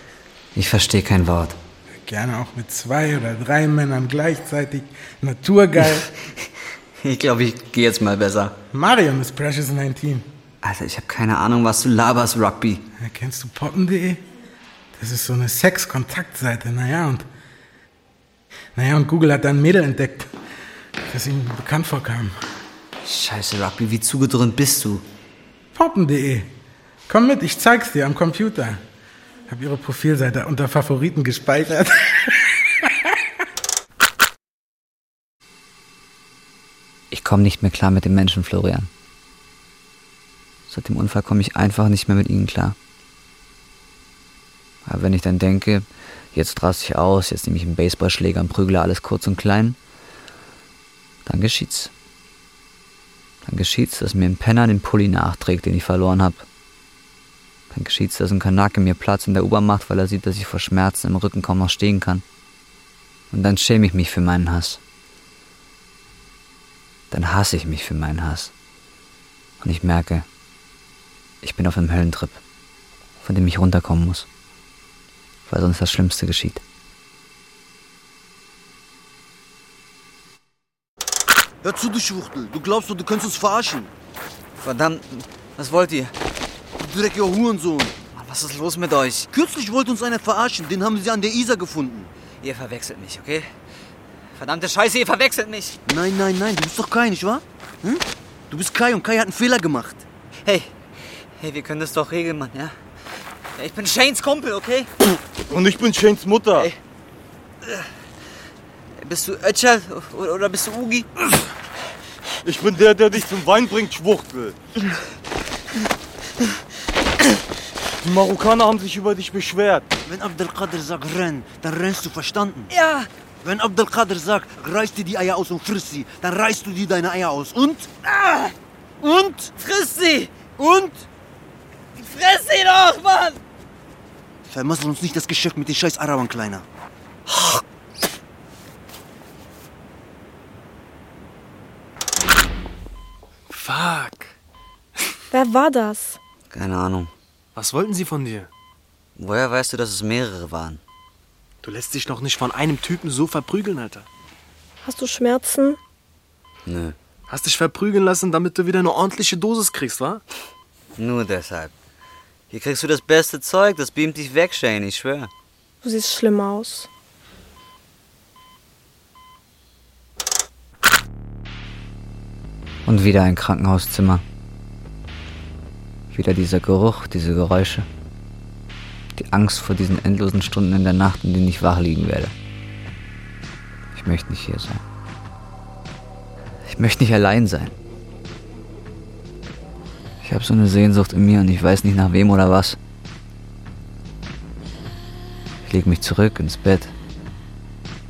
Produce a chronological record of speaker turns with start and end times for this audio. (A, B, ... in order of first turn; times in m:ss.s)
0:00.5-0:01.6 A
0:02.0-0:06.1 B
0:07.0-0:08.6 A
0:08.7-0:10.3 B
0:10.6-0:12.8 A
0:13.0-0:14.2 B
0:15.0-0:17.3 B
0:18.8-0:20.3 B
0:21.1-0:22.4 B
0:23.0-0:25.0 A
0:25.8-0:26.5 B
0:27.1-0:28.8 B
0:29.5-0:33.1 B
0:37.1-0:38.9 A
0:40.7-0:42.8 A
0:44.8-0:49.8 A
0:51.3-0:51.9 A
0:53.4-0:56.5 A
0:57.7-1:02.2 A
1:03.3-1:04.8 A
1:07.1-1:08.5 A
1:09.6-1:10.3 A
1:11.4-1:12.4 A
1:13.2-1:14.3 A
1:15.5-1:16.6 A
1:21.6-1:23.9 C
1:24.6-1:26.1 A
1:26.8-1:28.0 C
1:28.1-1:29.3 A
1:29.3-1:32.1 C
1:32.4-1:33.5 A
1:34.3-1:35.8 A
1:35.9-1:40.0 C
1:40.4-1:40.7 A
1:41.4-1:42.8 A
1:43.6-1:44.9 A
1:45.5-1:46.7 D
1:49.0-1:51.1 A
1:52.4-1:54.6 D
1:58.0-1:59.9 D
2:00.1-2:02.7 C
2:02.7-2:03.1 A
2:03.4-2:08.4 C
2:09.0-2:09.5 C
2:09.5-2:10.5 A
2:10.6-2:11.0 C
2:12.0-2:13.4 A
2:14.5-2:16.6 C
2:17.3-2:17.6 A
2:23.5-2:24.3 E
2:25.3-2:26.2 F
2:26.5-2:27.1 A
2:27.6-2:28.5 E
2:29.2-2:30.8 A
2:31.6-2:34.1 E
2:34.8-2:35.8 F
2:36.7-2:37.0 A
2:37.3-2:40.2 E
2:41.0-2:41.7 A
2:42.5-2:45.3 A
2:45.8-2:46.9 F
2:52.9-2:54.2 A
2:56.1-2:57.9 A
2:59.2-3:02.3 A
3:03.9-3:04.8 A
3:06.6-3:07.8 A
3:10.2-3:12.8 A
3:15.6-3:16.9 A